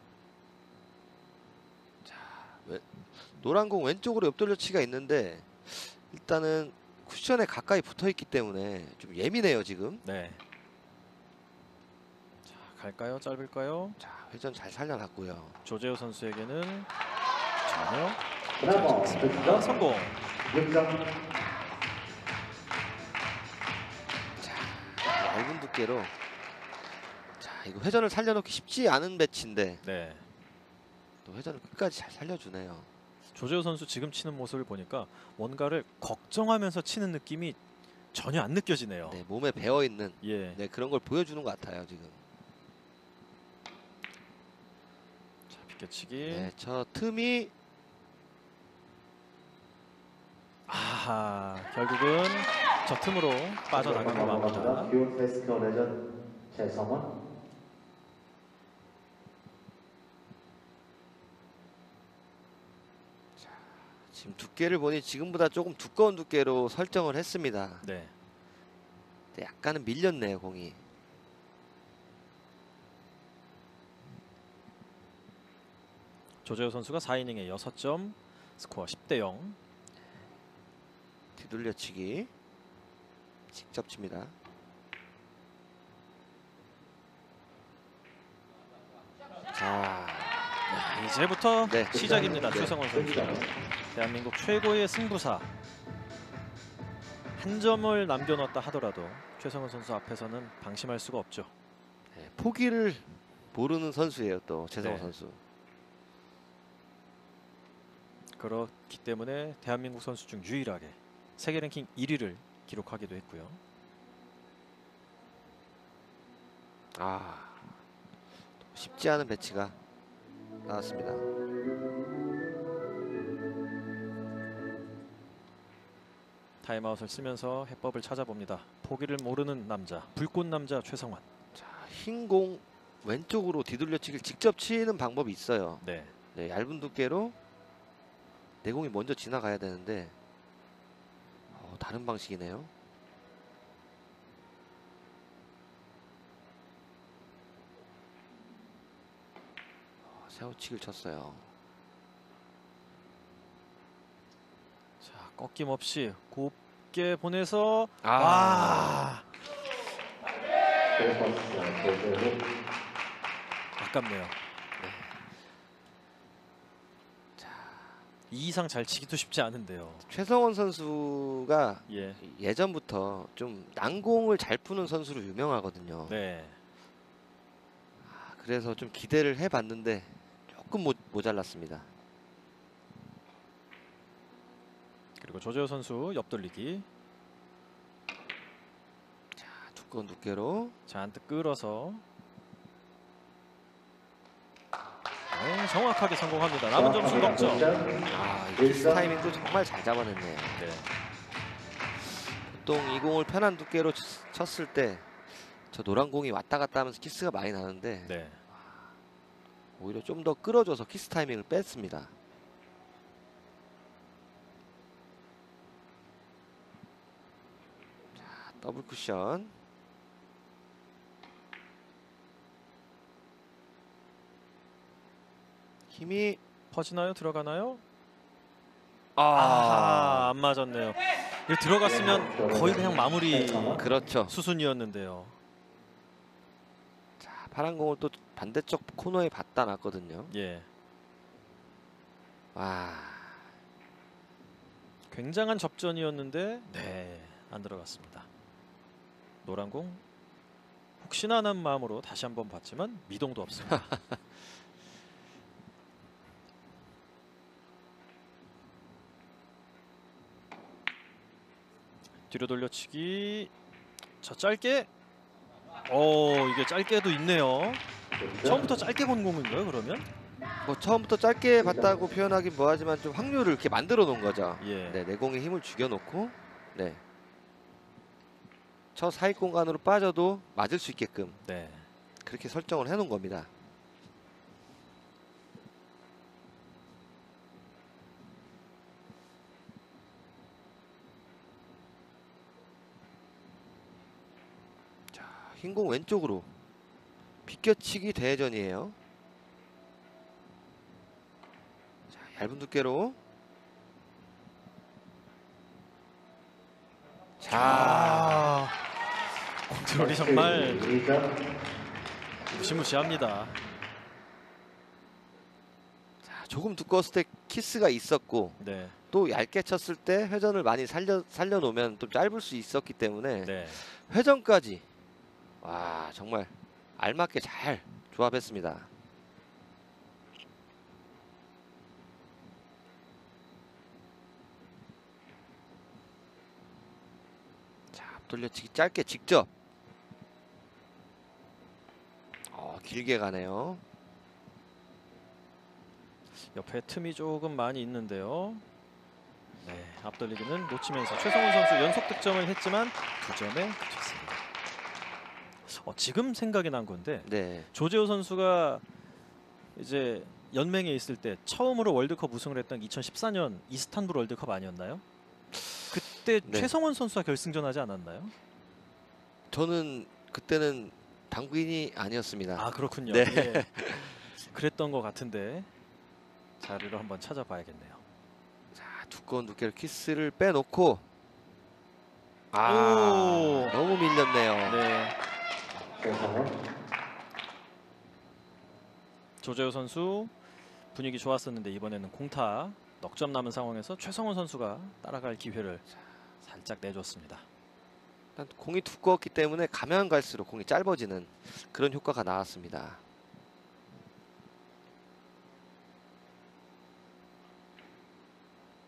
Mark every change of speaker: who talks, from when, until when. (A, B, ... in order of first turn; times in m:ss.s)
0:02.0-0:10.0 A
0:10.0-0:10.4 B
0:12.5-0:14.0 B
0:14.0-0:15.6 A
0:15.6-0:16.9 B
0:17.6-0:20.2 B
0:18.6-0:19.7 C
0:20.4-0:21.0 C
0:24.4-0:26.1 A
0:27.4-0:29.8 A
0:29.8-0:30.2 B
0:31.2-0:32.9 A
0:33.3-0:37.6 B
0:38.1-0:39.2 B
0:39.1-0:42.2 A
0:40.2-0:40.6 B
0:45.5-0:46.5 B
0:46.2-0:47.5 A
0:50.7-0:54.9 B
0:53.7-0:56.0 C
0:56.5-0:57.1 C
1:03.4-1:07.8 A
1:07.8-1:08.1 B
1:09.3-1:10.8 A
1:16.4-1:19.6 B
1:21.4-1:22.3 A
1:23.5-1:24.3 A
1:29.5-1:30.7 A
1:30.7-1:35.5 B
1:31.6-1:32.8 A
1:31.9-1:33.5 C
1:37.4-1:41.5 B
1:42.1-1:45.4 A
1:44.8-1:45.1 B
1:48.4-1:53.6 B
1:56.9-1:57.7 A
1:58.6-1:59.8 A
2:00.6-2:01.2 A
2:06.6-2:11.2 B
2:11.5-2:15.8 A
2:15.8-2:16.1 B
2:16.3-2:17.4 A
2:18.6-2:20.1 A
2:21.5-2:22.7 A
2:30.0-2:31.5 A
2:35.0-2:39.2 B
2:38.0-2:39.1 A
2:41.0-2:42.4 C
2:43.8-2:44.4 B
2:44.8-2:45.1 A
2:47.4-2:48.0 A
2:48.3-2:50.1 B
2:50.1-2:56.2 A
2:51.9-2:52.2 B
2:56.1-2:56.6 B
2:58.0-3:01.9 A
3:05.2-3:06.9 B
3:09.4-3:10.8 A
3:10.9-3:12.0 B
3:15.3-3:17.7 B
3:16.7-3:18.0 C
3:18.1-3:20.7 A
3:18.6-3:19.1 C
3:20.5-3:20.9 B
3:22.0-3:28.9 A
3:28.0-3:28.4 B
3:29.8-3:32.1 A
3:38.1-3:39.5 A
3:45.9-3:46.4 A
3:46.7-3:47.8 B
3:49.2-3:50.3 A
3:49.3-3:55.4 B
3:51.8-3:53.8 C
3:53.8-3:54.4 A
3:57.2-4:00.3 A
4:00.3-4:00.7 B
4:02.6-4:03.4 A
4:05.1-4:08.3 B
4:09.4-4:10.0 B
4:11.0-4:13.9 B
4:22.3-4:23.5 B
4:24.2-4:24.9 B
4:25.9-4:27.8 B
4:28.1-4:28.6 C
4:28.4-4:30.1 B
4:30.6-4:37.0 A
4:31.6-4:32.1 C
4:34.6-4:35.0 B
4:39.0-4:41.4 A
4:41.4-4:41.9 B
4:42.2-4:43.5 A
4:55.1-4:56.6 A
4:57.5-4:59.0 A
5:02.1-5:03.2 A
5:07.4-5:08.4 A
5:07.5-5:08.8 B
5:09.7-5:10.9 B
5:10.0-5:11.4 C
5:12.5-5:13.6 B
5:16.2-5:18.6 A
5:18.6-5:19.0 B
5:19.1-5:24.9 A
5:23.4-5:23.8 B
5:25.6-5:28.9 A
5:37.9-5:39.5 A
5:42.5-5:43.8 A
5:46.4-5:48.6 B
5:49.6-5:54.4 B
5:55.7-5:58.8 B
5:57.2-5:57.7 A
5:59.8-6:05.0 B
6:05.5-6:06.7 A
6:05.9-6:08.3 B
6:09.5-6:14.2 A
6:12.6-6:15.7 B
6:16.6-6:18.0 B
6:18.7-6:21.0 A
6:22.5-6:24.8 A
6:22.6-6:23.8 B
6:24.6-6:25.1 B
6:26.0-6:26.5 C
6:29.4-6:30.3 B
6:30.9-6:35.9 B
6:36.4-6:37.4 B
6:38.4-6:43.0 A